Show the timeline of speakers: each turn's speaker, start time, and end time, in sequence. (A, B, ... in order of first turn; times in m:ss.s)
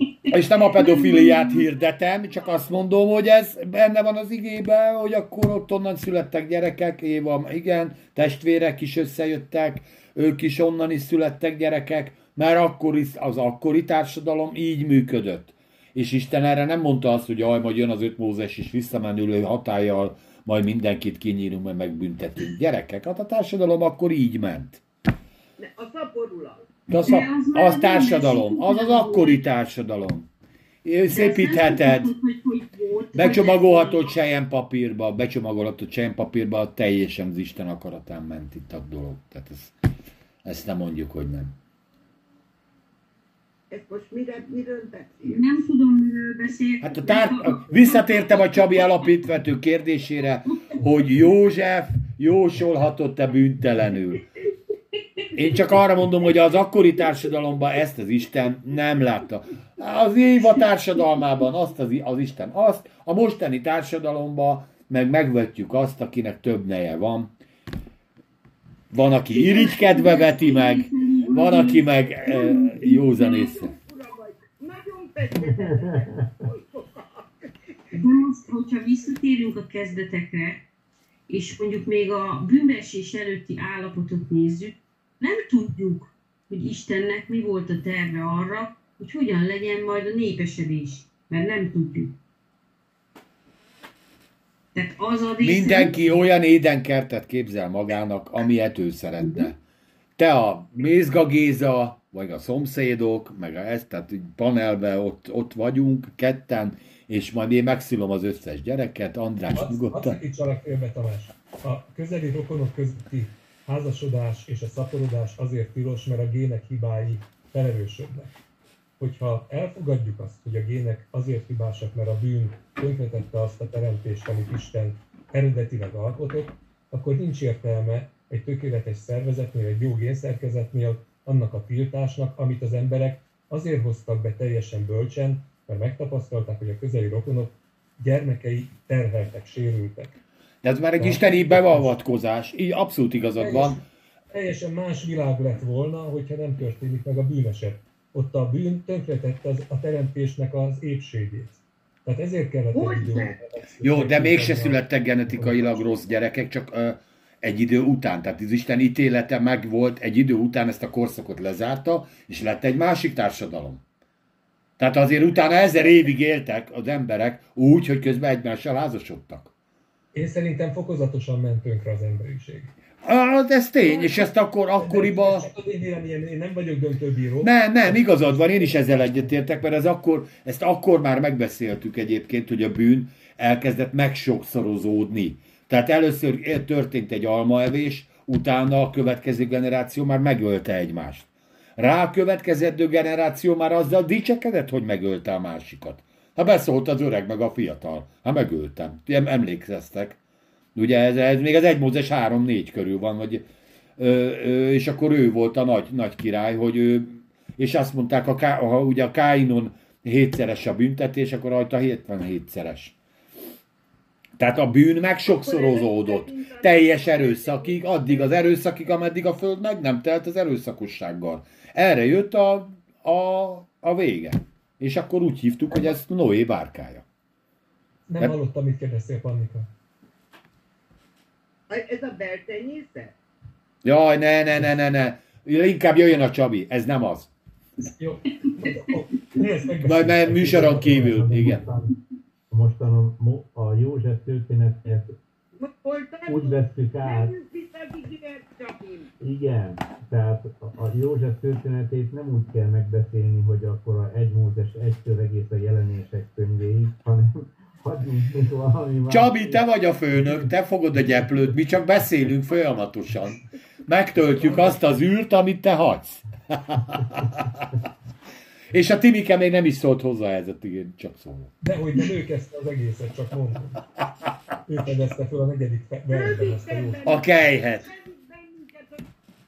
0:00.3-0:24.8 A
0:00.8-0:01.6 B
0:25.6-0:26.6 C
0:26.9-0:30.3 A
0:27.0-0:29.4 B
0:30.8-0:32.1 A
0:31.1-0:34.1 B
0:33.1-0:39.7 A
0:40.4-0:41.6 A
0:43.7-0:45.4 C
0:45.2-0:48.9 B
0:46.8-0:54.2 A
0:50.5-0:50.8 B
0:55.3-1:07.3 A
1:08.9-1:13.7 A
1:09.3-1:13.5 B
1:11.2-1:11.5 C
1:12.8-1:17.8 C
1:15.6-1:15.9 D
1:17.9-1:20.6 B
1:21.3-1:32.1 B
1:34.7-1:36.0 B
1:35.4-1:39.6 A
1:39.2-1:39.5 B
1:40.2-1:50.2 A
1:49.5-1:58.3 E
1:59.0-2:20.1 E
2:20.6-2:23.8 A
2:21.0-2:21.9 E
2:23.4-2:35.7 E
2:32.7-2:33.4 C
2:33.8-2:43.8 A
2:44.8-2:49.5 A
2:50.1-2:52.7 E
2:53.0-2:55.5 A
2:53.8-2:54.3 E
2:54.8-2:59.2 E
2:57.4-3:20.2 A
3:20.7-3:23.4 A
3:24.0-3:33.0 A
3:34.4-3:47.0 A
3:35.4-3:38.3 C
3:48.1-3:49.7 E
3:51.7-3:53.1 C
3:53.8-3:57.3 A
3:57.8-4:01.6 E
3:59.8-4:01.6 A
4:00.7-4:01.9 D
4:02.5-4:05.1 D
4:05.6-4:09.1 C
4:06.3-4:07.3 D
4:09.2-4:19.6 D
4:19.1-4:27.6 A
4:28.7-4:31.5 A
4:31.6-4:33.8 E
4:34.7-4:37.0 E
4:36.1-4:39.0 C
4:37.0-4:37.9 A